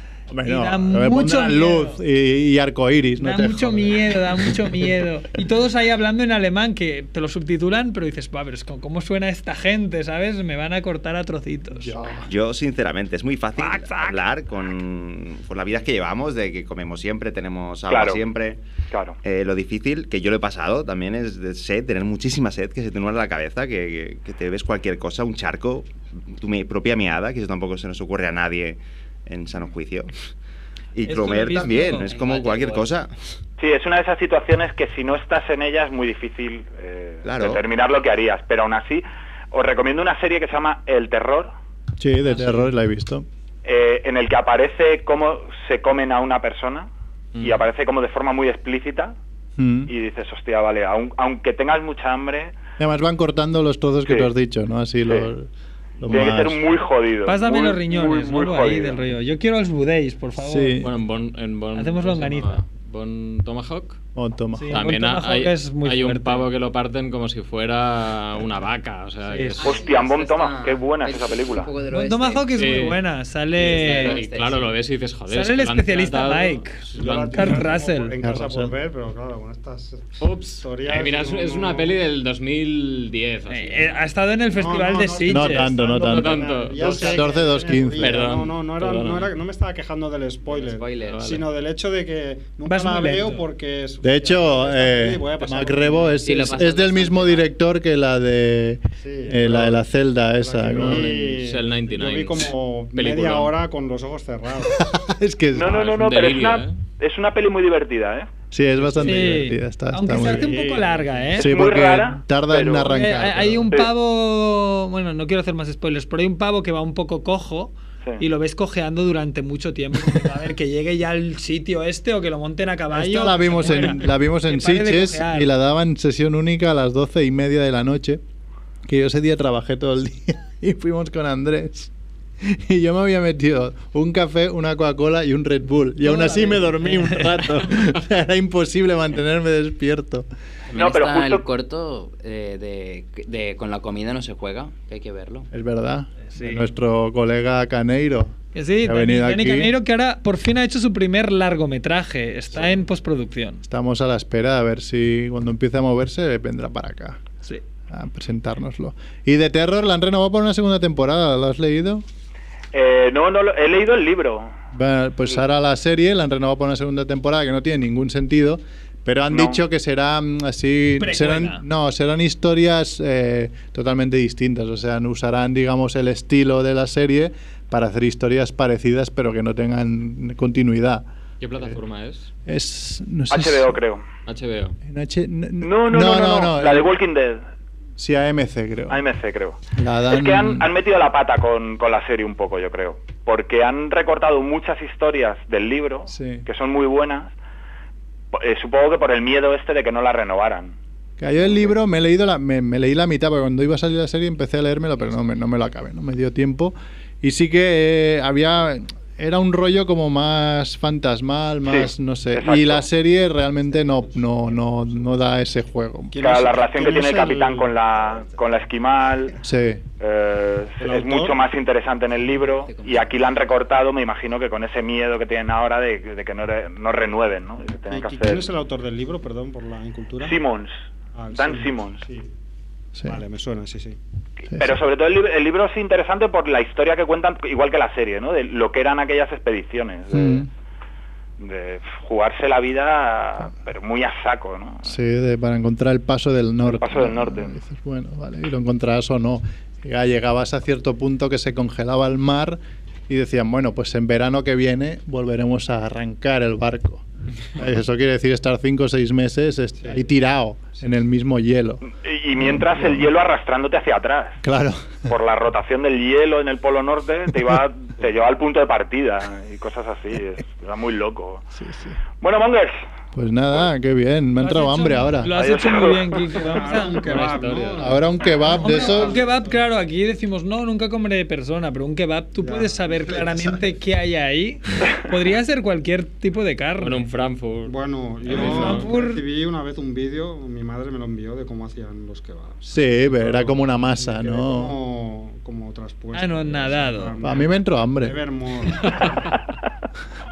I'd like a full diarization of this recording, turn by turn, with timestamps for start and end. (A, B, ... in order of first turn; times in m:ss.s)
0:00.3-0:04.9 A
0:00.4-0:02.0 B
0:03.2-0:11.9 B
0:11.8-0:12.3 A
0:12.3-0:18.6 C
0:13.6-0:14.2 B
0:17.9-0:18.2 D
0:18.9-0:19.2 D
0:19.2-0:30.1 C
0:31.0-0:33.1 C
0:31.0-0:32.1 B
0:31.6-0:32.9 E
0:33.6-0:41.5 D
0:37.2-0:37.6 C
0:42.0-0:43.2 A
0:43.6-0:46.9 D
0:47.3-0:47.6 F
0:47.4-0:49.2 D
0:49.6-0:49.9 A
0:49.9-0:52.5 D
0:52.8-0:55.5 A
0:56.0-0:56.6 A
0:56.1-0:59.0 D
0:57.2-1:00.8 B
1:00.4-1:00.9 A
1:00.8-1:04.0 F
1:01.7-1:02.6 B
1:04.1-1:04.8 A
1:04.6-1:06.5 B
1:04.7-1:09.8 F
1:09.3-1:09.6 B
1:09.6-1:12.8 E
1:09.6-1:11.7 D
1:11.9-1:14.2 B
1:12.5-1:13.0 F
1:13.6-1:17.7 F
1:13.6-1:14.7 E
1:15.3-1:18.1 B
1:17.0-1:22.0 G
1:18.2-1:18.7 A
1:20.2-1:24.0 F
1:23.5-1:25.7 B
1:24.5-1:36.2 G
1:25.3-1:28.2 A
1:25.9-1:29.3 F
1:30.5-1:31.2 E
1:31.0-1:31.4 F
1:32.6-1:33.4 B
1:34.0-1:41.1 A
1:36.2-1:37.5 E
1:39.0-1:45.0 G
1:40.7-1:43.5 F
1:44.8-1:45.9 A
1:45.5-1:48.3 D
1:45.6-1:46.8 F
1:48.5-1:50.6 A
1:48.8-1:49.3 F
1:49.0-1:51.5 B
1:50.2-1:51.4 G
1:51.4-1:53.7 A
1:51.4-1:52.9 D
1:52.9-2:05.5 B
2:02.9-2:08.2 A
2:08.8-2:11.9 A
2:12.4-2:20.3 A
2:16.0-2:17.4 B
2:20.7-2:25.5 E
2:20.7-2:21.4 D
2:25.5-2:29.7 A
2:26.3-2:26.6 B
2:28.5-2:33.6 B
2:33.6-2:37.2 A
2:37.9-2:42.0 A
2:42.7-2:44.5 D
2:44.7-3:01.0 A
2:49.3-2:49.6 D
2:51.0-2:51.6 B
3:01.4-3:02.3 F
3:02.4-3:03.8 A
3:03.3-3:04.0 D
3:04.2-3:04.8 F
3:04.8-3:06.9 A
3:05.6-3:07.4 D
3:08.0-3:09.0 A
3:08.9-3:09.6 D
3:09.8-3:10.7 A
3:10.1-3:17.3 D
3:16.1-3:16.4 A
3:18.3-3:20.7 D
3:21.2-3:36.2 A
3:31.7-3:32.8 D
3:36.1-3:37.7 G
3:36.2-3:39.4 D
3:39.4-3:39.8 A
3:40.0-3:48.5 D
3:40.8-3:41.4 G
3:42.6-3:43.1 E
3:47.9-3:50.4 G
3:50.2-3:50.7 D
3:51.1-3:52.3 G
3:51.3-3:52.0 D
3:53.0-3:53.2 A
3:53.0-3:54.0 G
3:54.5-4:00.4 D
4:00.1-4:00.5 A
4:01.4-4:05.0 D
4:04.8-4:21.8 A
4:06.6-4:07.6 D
4:22.0-4:24.4 D
4:22.3-4:23.1 A
4:24.4-4:25.0 A
4:25.1-4:31.4 D
4:31.5-4:32.0 A
4:32.2-4:32.8 D
4:33.1-4:35.3 A
4:34.4-4:37.4 B
4:35.3-4:36.2 D
4:36.4-4:39.6 G
4:37.0-4:37.9 F
4:37.8-4:39.2 A
4:38.4-4:47.1 B
4:42.4-4:43.1 G
4:46.8-4:48.9 F
4:47.6-4:59.3 G
4:48.3-4:49.2 B
4:52.6-4:54.8 A
4:56.1-4:57.1 B
4:57.2-4:58.2 A
4:58.8-4:59.1 F